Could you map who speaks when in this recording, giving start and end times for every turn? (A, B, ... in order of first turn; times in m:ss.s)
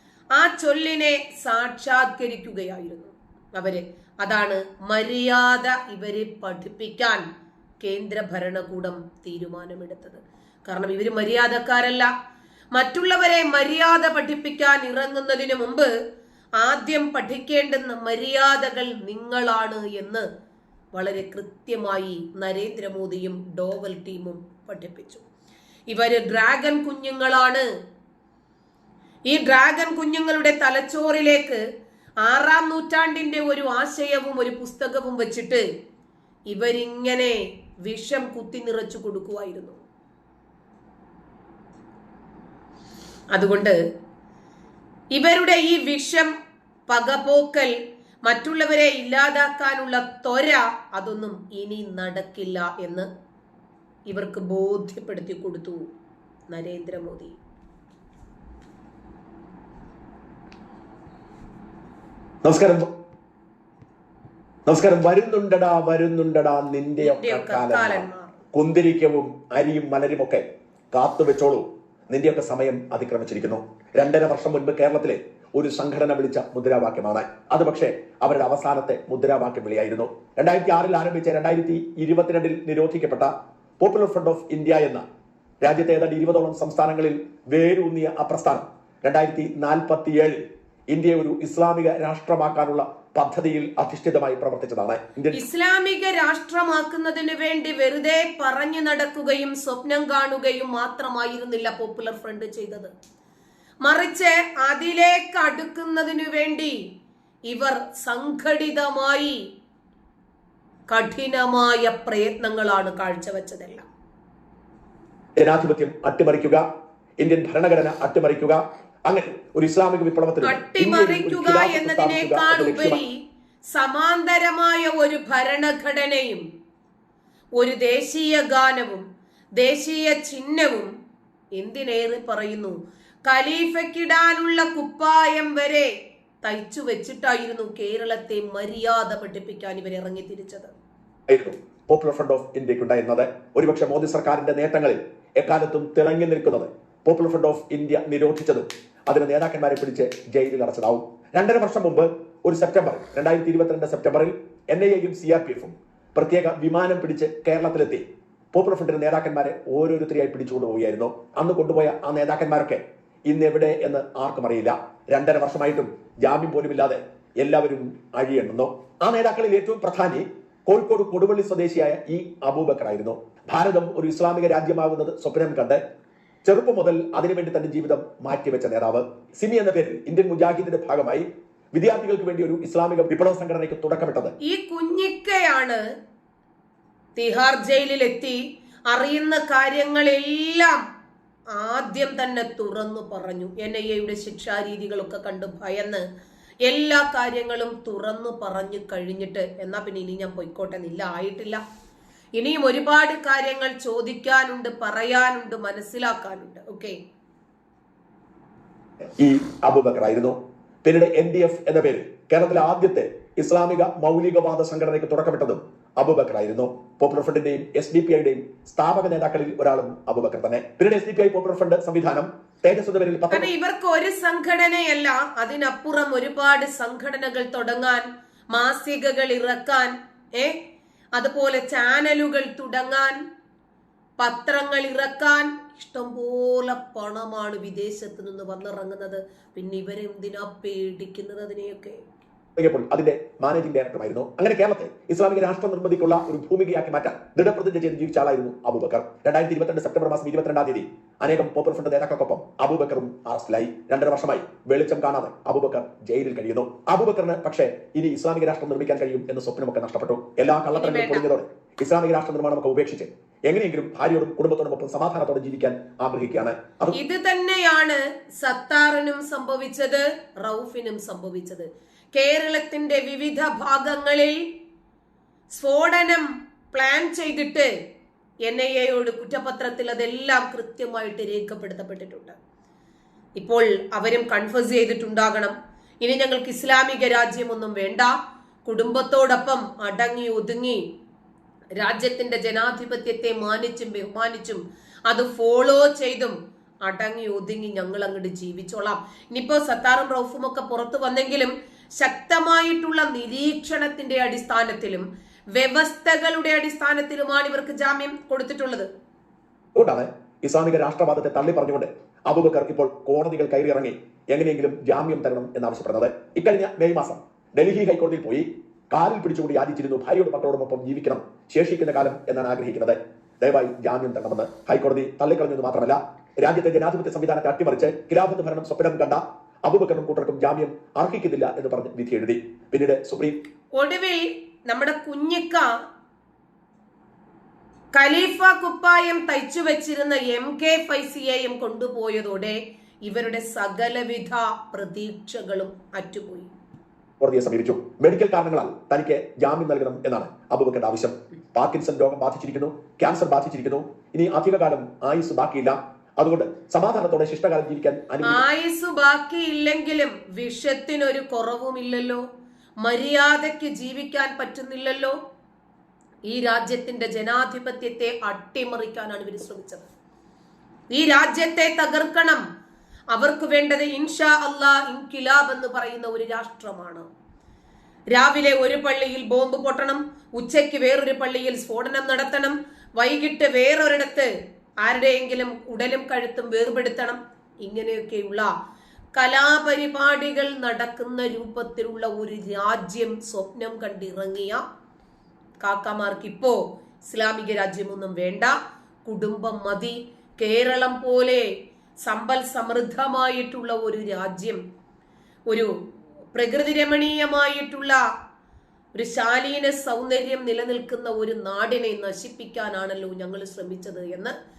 0:00.4-0:07.2 A
0:07.8-0:12.1 A
0:12.7-0:15.9 A
0:16.6-0:20.3 A
0:20.9-0:25.2 A
0:25.9-0:27.6 A
0:29.3-0:31.6 A
0:32.2-0:35.6 A
0:36.5-0:39.8 A
0:43.3-0:43.8 A
0:45.1-0:46.3 A
0:46.9-0:47.7 A
0:48.2-0:53.1 A
0:54.1-0:55.9 A
0:56.5-0:57.4 A
1:02.4-1:02.9 B
1:04.7-1:25.0 B
1:07.0-1:08.4 A
1:25.6-1:35.4 B
1:35.3-1:42.9 A
1:43.8-1:46.8 A
1:47.5-1:49.4 A
1:50.9-1:53.9 A
1:55.4-1:56.6 B
1:57.2-2:03.0 B
2:00.4-2:03.1 A
2:03.7-2:06.4 A
2:07.6-2:09.0 A
2:09.6-2:10.9 A
2:11.6-2:20.7 A
2:21.3-2:55.8 B
2:56.4-3:04.3 B
3:04.4-3:05.8 A
3:07.2-3:10.8 A
3:11.5-3:16.0 A
3:16.6-3:21.6 A
3:22.4-3:27.0 A
3:29.2-3:43.5 B
3:43.3-3:50.6 A
3:51.2-3:53.2 A
3:54.2-4:02.0 A
4:02.6-4:27.0 B
4:20.8-4:21.2 A
4:26.9-4:34.4 A
4:35.5-4:37.7 A
4:38.5-4:42.4 A
4:43.4-4:48.1 A
4:48.6-4:50.8 A
4:51.8-5:08.9 A
5:09.8-5:33.4 B
5:33.8-5:35.7 A
5:38.0-5:46.5 A
5:47.2-5:58.4 B
5:58.2-6:02.2 A
6:02.8-6:05.2 A
6:06.3-6:09.9 A
6:10.9-6:12.4 A
6:13.1-6:17.0 A
6:18.1-6:24.3 A
6:24.8-6:28.5 A
6:29.2-6:34.6 A
6:35.6-6:41.5 A
6:42.0-6:44.6 A
6:46.3-6:48.0 A
6:48.9-6:54.3 A